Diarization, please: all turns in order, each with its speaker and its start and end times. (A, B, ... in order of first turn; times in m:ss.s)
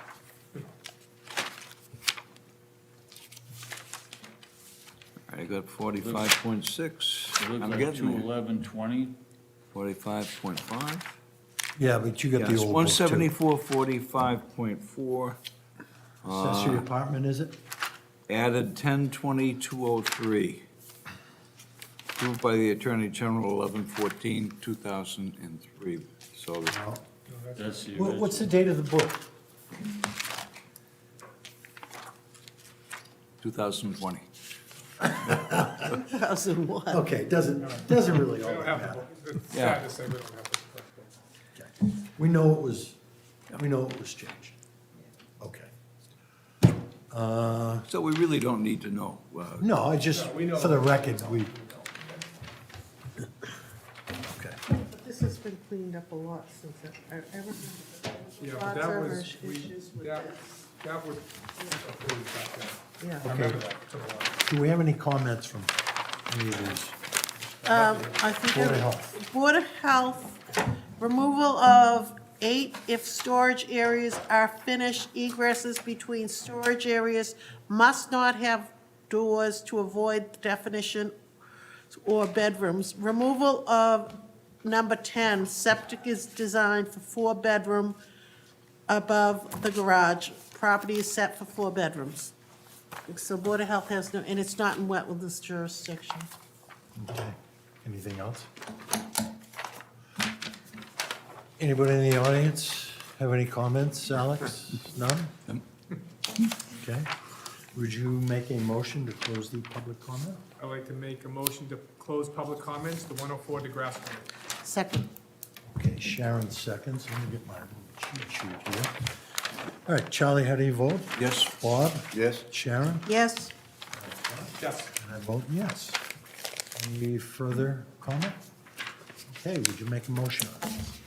0:05.3-0:08.3 A
0:06.0-0:06.3 B
0:07.3-0:09.2 B
0:09.7-0:11.2 A
0:11.8-0:13.3 C
0:12.3-0:15.4 A
0:16.2-0:16.8 A
0:16.2-0:17.6 C
0:18.3-0:20.6 A
0:22.2-0:26.8 A
0:26.6-0:27.0 C
0:27.3-0:27.9 D
0:27.6-0:28.5 B
0:27.9-0:29.2 C
0:33.4-0:34.2 A
0:35.0-0:35.8 C
0:35.2-0:35.5 A
0:35.7-0:37.0 E
0:36.9-0:39.0 C
0:37.6-0:41.1 D
0:39.5-0:39.8 A
0:41.6-0:43.0 C
0:43.5-0:44.6 C
0:45.4-0:45.7 C
0:47.1-0:47.9 C
0:47.9-0:49.7 A
0:49.6-0:51.5 C
0:50.0-0:51.9 D
0:54.3-0:54.6 C
0:54.7-1:00.5 E
0:58.4-1:04.4 D
1:03.0-1:03.2 E
1:03.2-1:03.6 C
1:04.4-1:05.8 C
1:06.3-1:07.0 C
1:07.6-1:21.1 E
1:07.6-1:08.1 D
1:08.0-1:09.1 C
1:21.9-1:28.0 E
1:28.9-1:32.3 E
1:33.1-1:36.3 E
1:37.0-1:38.5 C
1:41.6-1:45.3 C
1:46.7-1:47.1 C
1:47.7-1:50.4 C
1:50.6-1:54.3 D
1:54.6-1:55.1 E
1:55.7-1:58.9 C
1:59.8-2:03.1 C
2:01.2-2:01.5 A
2:02.1-2:02.4 A
2:03.0-2:03.5 E
2:03.9-2:06.0 C
2:04.6-2:04.9 D
2:06.8-2:08.4 C
2:09.3-2:10.8 C